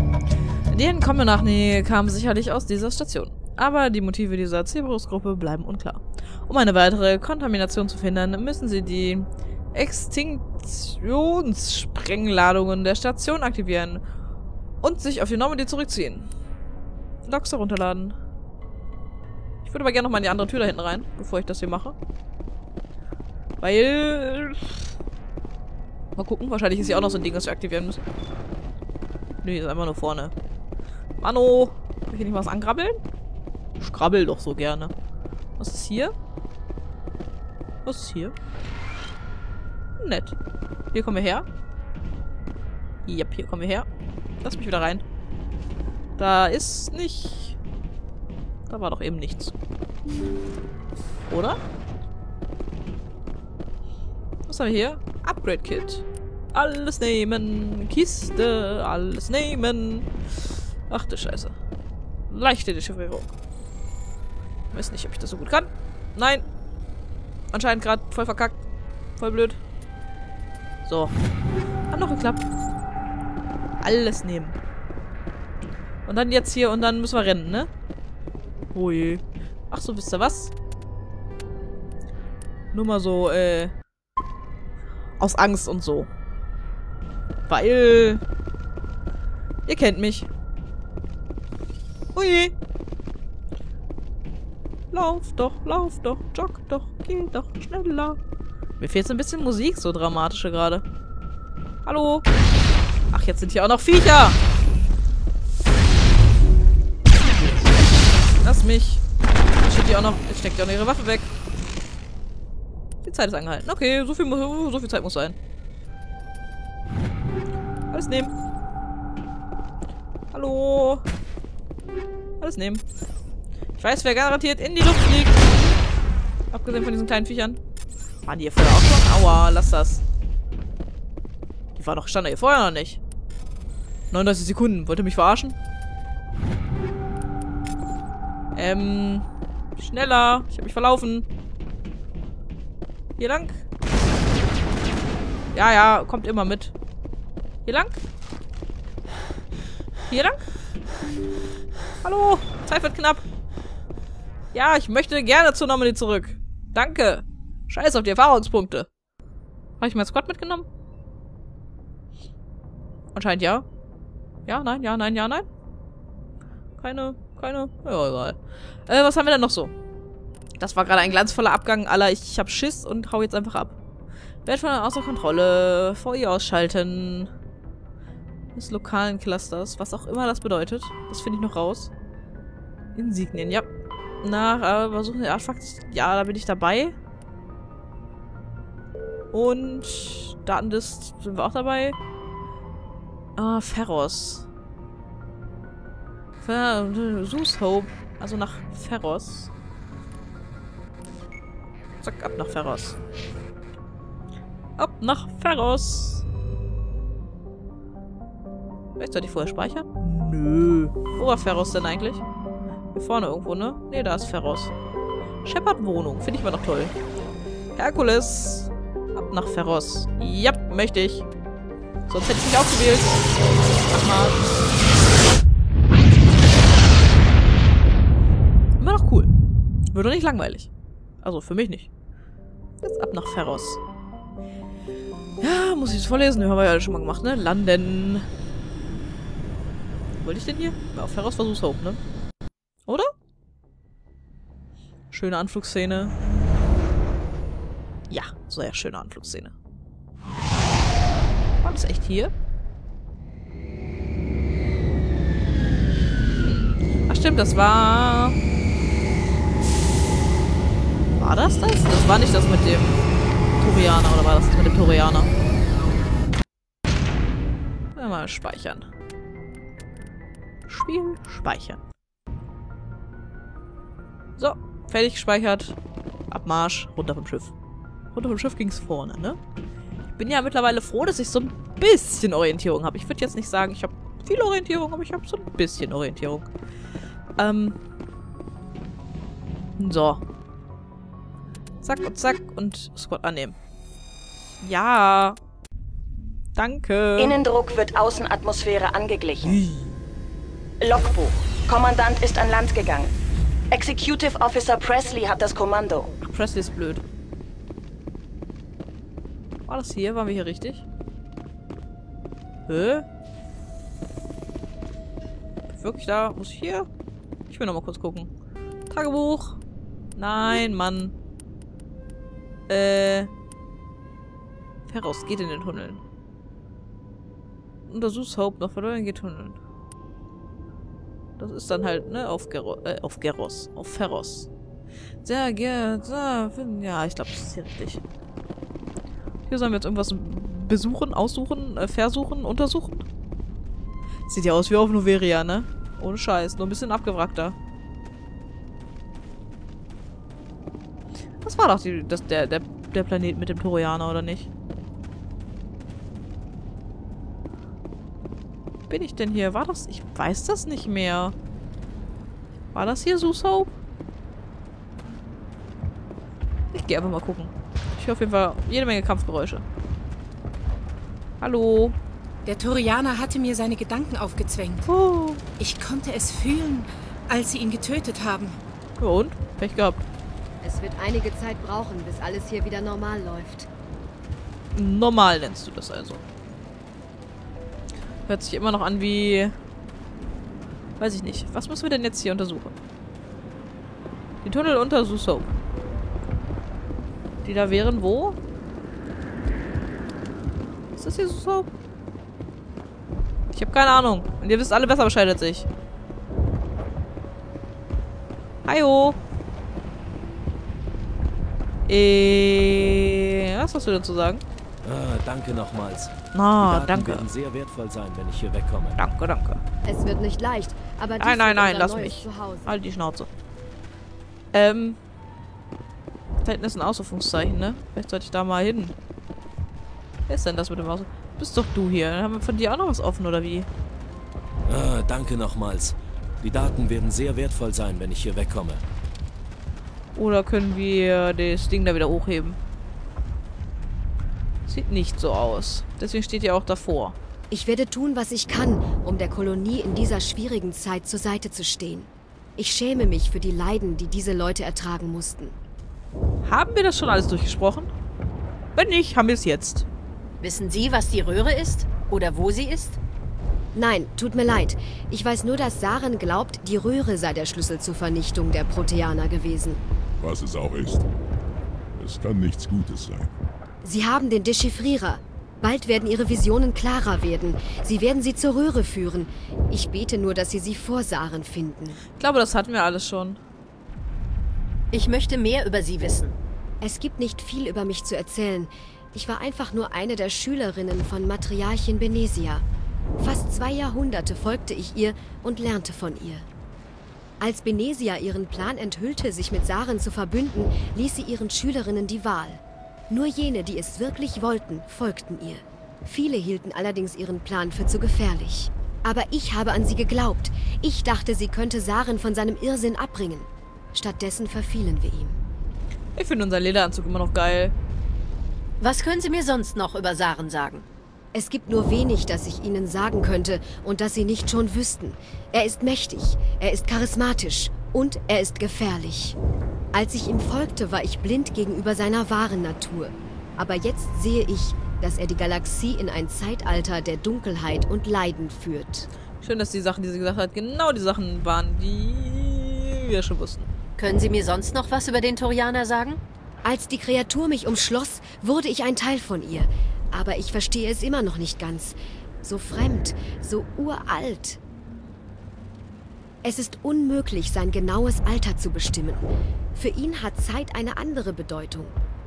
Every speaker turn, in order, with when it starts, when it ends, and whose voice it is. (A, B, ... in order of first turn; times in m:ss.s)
0:00.7-0:14.0 A
0:14.8-0:16.3 A
0:17.2-0:18.2 A
0:19.6-0:22.0 A
0:23.6-0:24.8 A
0:26.2-0:28.1 A
0:29.4-0:30.3 A
0:31.2-0:33.0 A
0:33.8-0:34.9 A
0:35.6-0:36.1 A
0:37.8-0:38.3 A
0:40.0-0:40.4 A
0:40.9-0:41.4 A
0:43.1-0:43.8 A
0:44.4-0:45.0 A
0:46.2-0:47.6 A
0:48.7-0:49.5 A
0:51.3-0:51.6 A
0:54.5-1:00.1 A
1:00.9-1:01.5 A
1:02.3-1:03.3 A
1:04.7-1:06.4 A
1:07.5-1:08.6 A
1:09.2-1:09.6 A
1:10.8-1:11.1 A
1:11.9-1:12.4 A
1:13.8-1:14.6 A
1:16.1-1:17.7 A
1:18.7-1:20.5 A
1:22.7-1:23.7 A
1:25.2-1:26.1 A
1:27.5-1:28.2 A
1:29.7-1:30.3 A
1:32.1-1:32.5 A
1:34.9-1:38.2 A
1:38.8-1:40.8 A
1:41.8-1:42.2 A
1:43.1-1:44.4 A
1:47.2-1:47.7 A
1:48.4-1:49.0 A
1:49.6-1:51.3 A
1:53.0-1:55.4 A
1:57.9-1:58.3 A
2:00.3-2:01.0 A
2:02.4-2:02.8 A
2:03.8-2:05.4 A
2:06.5-2:07.6 A
2:08.2-2:10.0 A
2:11.8-2:13.0 A
2:14.1-2:15.6 A
2:18.5-2:21.3 A
2:23.2-2:23.6 A
2:25.5-2:26.7 A
2:27.7-2:28.0 A
2:30.1-2:30.5 A
2:32.0-2:33.2 A
2:34.5-2:38.9 A
2:39.8-2:40.7 A
2:43.1-2:43.7 A
2:44.5-2:45.5 A
2:46.8-2:49.7 A
2:50.6-2:53.8 A
2:54.4-2:57.3 A
2:58.5-3:01.9 A
3:03.0-3:03.7 A
3:04.2-3:07.0 A
3:09.3-3:12.0 A
3:13.4-3:14.5 A
3:16.4-3:19.5 A
3:22.0-3:23.0 A
3:24.8-3:26.2 A
3:29.0-3:32.2 A
3:32.9-3:34.7 A
3:35.4-3:36.9 A
3:37.8-3:41.3 A
3:42.1-3:43.2 A
3:43.8-3:44.5 A
3:48.8-3:49.3 A
3:49.9-3:50.7 A
3:51.2-3:51.9 A
3:52.8-3:53.8 A
3:55.4-3:58.3 A
4:00.2-4:02.0 A
4:05.1-4:06.1 A
4:08.1-4:09.5 A
4:11.6-4:12.3 A
4:16.4-4:18.4 A
4:21.1-4:23.0 A
4:23.6-4:25.3 A
4:28.0-4:28.8 A
4:30.7-4:31.8 A
4:34.4-4:35.8 A
4:36.3-4:37.5 A
4:38.1-4:39.4 A
4:40.1-4:46.5 A
4:47.4-4:47.8 A
4:49.8-4:50.2 A
4:51.8-4:53.6 A
4:54.6-4:55.4 A
4:56.6-4:57.4 A
4:57.2-4:59.6 B
4:59.5-4:59.9 A
5:00.8-5:03.1 B
5:03.7-5:06.1 B
5:06.2-5:07.0 A
5:09.6-5:10.9 A
5:12.7-5:13.0 A
5:15.7-5:16.9 A
5:17.5-5:18.3 A
5:18.9-5:19.6 A
5:20.2-5:21.1 A
5:22.7-5:23.3 A
5:24.9-5:26.0 A
5:27.9-5:29.6 A
5:31.4-5:34.5 A
5:35.2-5:38.0 A
5:39.5-5:43.0 A
5:44.3-5:47.6 A
5:51.4-5:54.5 A
5:58.9-6:01.4 A
6:02.7-6:03.7 A
6:06.7-6:09.6 A
6:11.4-6:12.0 A
6:12.5-6:14.8 C
6:14.9-6:15.4 A
6:15.6-6:18.5 C
6:19.0-6:20.0 A
6:20.6-6:23.7 D
6:24.7-6:26.2 A
6:28.2-6:29.6 A
6:31.0-6:32.8 A
6:34.4-6:35.5 A
6:37.4-6:38.4 A
6:41.0-6:41.7 A
6:43.5-6:45.7 A
6:48.6-6:49.2 A
6:51.9-6:54.4 A
6:54.8-6:59.0 E
6:56.3-6:57.3 A
6:59.0-6:59.6 A
6:59.9-7:02.7 D
7:01.2-7:03.3 A
7:04.5-7:05.0 A
7:06.4-7:08.9 A
7:10.3-7:13.7 A
7:14.7-7:18.8 E
7:20.1-7:22.6 A
7:24.7-7:27.2 A
7:27.5-7:35.6 D
7:36.4-7:37.9 A
7:38.8-7:39.9 A
7:40.4-7:43.0 F
7:43.7-7:49.8 D
7:50.2-7:51.1 G
7:52.0-7:53.3 G
7:53.8-8:02.0 D
8:02.2-8:03.4 A
8:04.9-8:06.4 F
8:06.8-8:12.6 D
8:13.2-8:16.5 D
8:17.4-8:35.4 D
8:36.2-8:37.8 A
8:38.8-8:40.8 F
8:41.3-8:49.4 D
8:49.9-8:59.1 D
8:59.4-9:03.7 A
9:04.0-9:06.2 F
9:06.6-9:14.6 D
9:16.4-9:22.0 D